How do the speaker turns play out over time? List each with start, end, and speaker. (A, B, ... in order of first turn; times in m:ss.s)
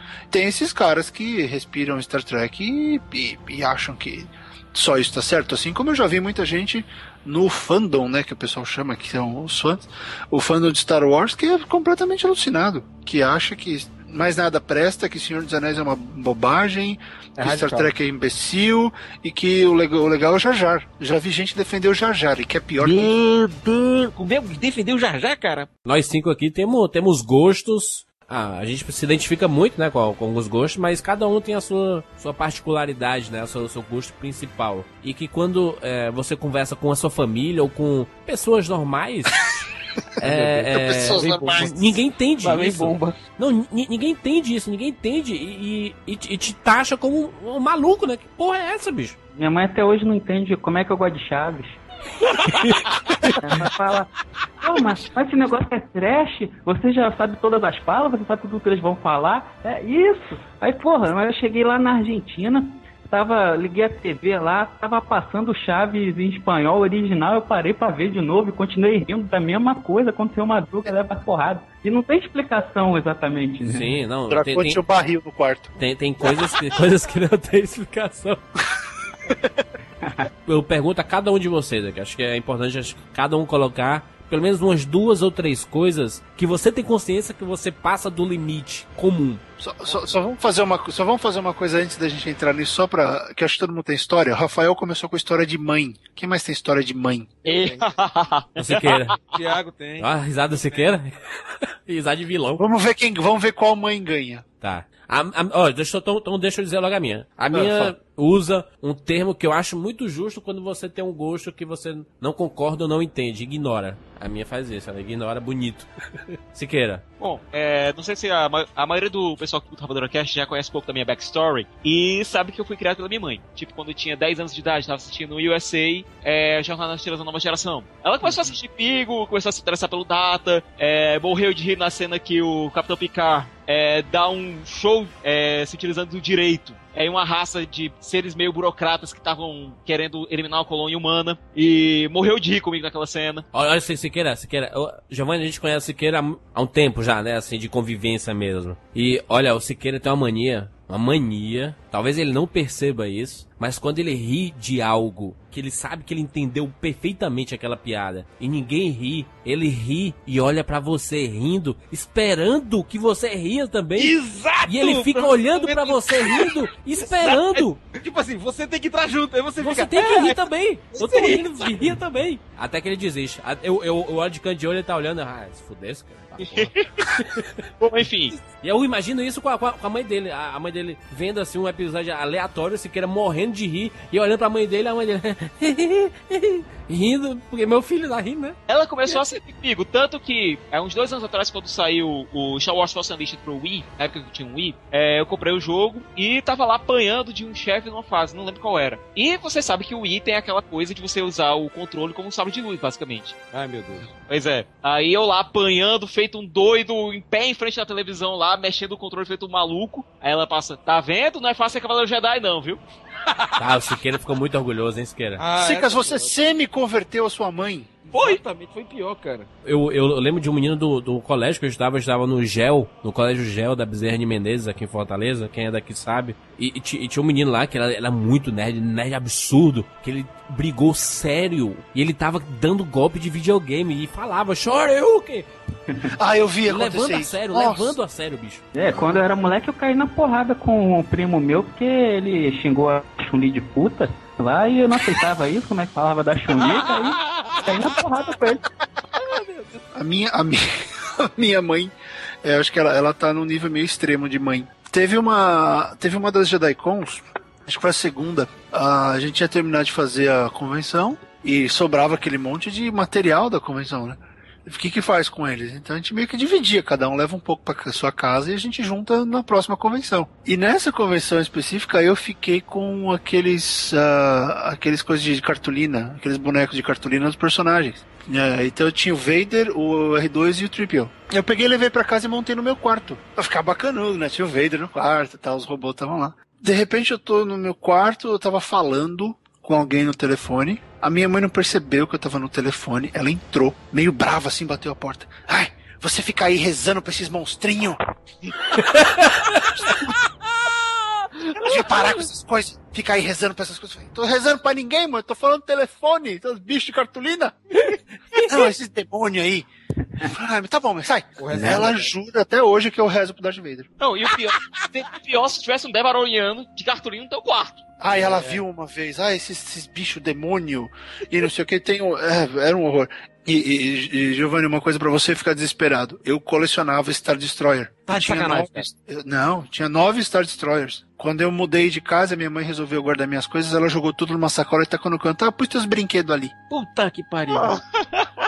0:00.3-0:23.1 A
0:17.4-0:17.9 B
0:22.8-0:25.7 B
0:25.9-0:39.6 C
0:40.2-0:49.2 C
0:40.2-0:40.7 B
0:40.7-0:41.7 A
0:42.4-0:43.2 B
0:49.4-0:51.8 D
0:52.6-0:52.8 C
0:53.4-0:54.1 D
0:54.6-1:13.9 D
1:13.6-1:14.8 C
1:14.3-1:15.7 A
1:15.8-1:18.4 C
1:20.5-1:29.4 C
1:29.6-1:37.5 A
1:37.5-1:37.9 B
1:37.5-1:39.2 E
1:38.6-1:39.2 C
1:39.3-1:40.9 B
1:40.0-1:41.1 C
1:41.9-1:42.6 C
1:42.6-1:44.4 A
1:44.6-1:55.9 C
1:56.5-1:57.0 C
1:57.2-2:23.4 E
2:23.5-2:44.1 C
2:44.0-2:50.4 B
2:44.7-2:47.8 C
2:49.6-2:57.6 C
2:50.9-2:51.9 B
2:56.4-2:57.1 E
2:57.8-2:58.4 E
2:58.4-3:08.6 C
3:08.7-3:23.4 E
3:23.5-3:24.1 B
3:24.3-3:32.8 E
3:33.3-3:33.7 B
3:33.6-3:35.4 C
3:35.4-3:36.4 B
3:35.5-3:37.9 A
3:38.1-3:39.5 B
3:38.1-3:38.4 E
3:39.6-3:55.5 C
3:56.2-3:58.0 A
3:56.7-3:58.6 C
3:58.7-4:08.6 D
4:09.2-4:09.9 B
4:09.9-4:58.0 A
4:59.5-5:00.2 A
5:01.5-5:07.6 A
5:01.8-5:02.1 B
5:08.4-5:09.7 A
5:10.2-5:13.9 A
5:11.4-5:12.1 B
5:14.0-5:18.3 E
5:14.5-5:14.8 B
5:18.0-5:36.5 A
5:28.1-5:28.9 B
5:36.7-5:37.8 B
5:37.8-5:38.3 E